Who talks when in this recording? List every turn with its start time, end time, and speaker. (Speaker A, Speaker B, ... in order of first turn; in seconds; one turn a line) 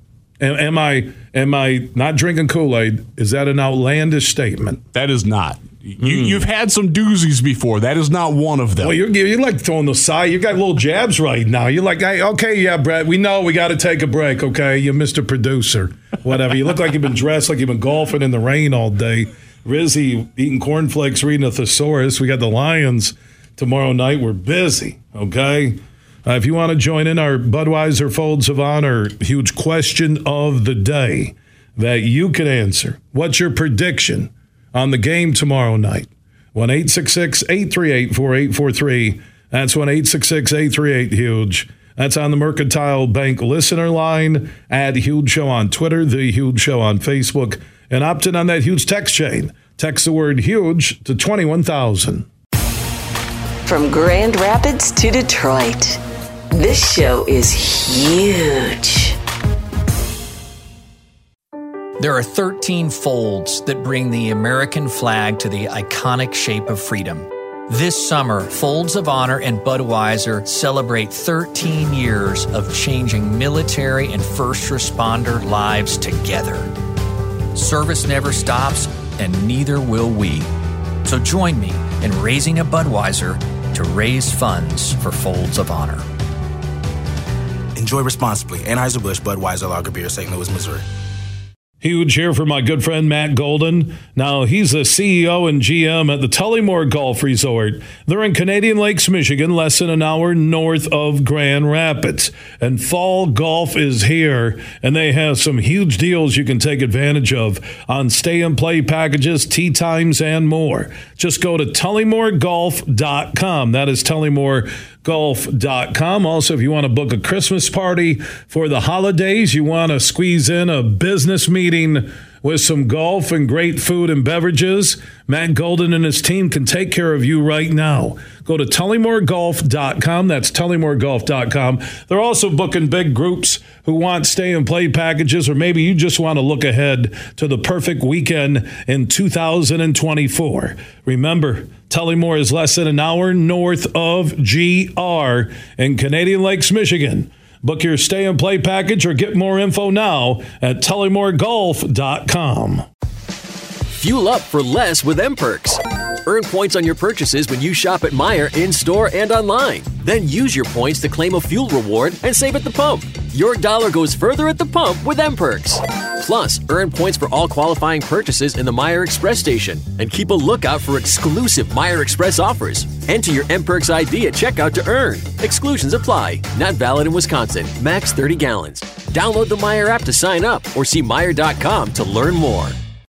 Speaker A: 0.4-4.8
Speaker B: 4.9-9.0
Speaker A: 6.0-6.4
Speaker A: 8.8-52.3
Speaker C: 53.6-56.0
Speaker C: 56.5-59.2
Speaker D: 62.0-76.7
Speaker D: 77.5-80.5
Speaker D: 81.0-86.1
Speaker E: 87.8-90.8
Speaker A: 91.8-152.8
Speaker F: 154.0-182.8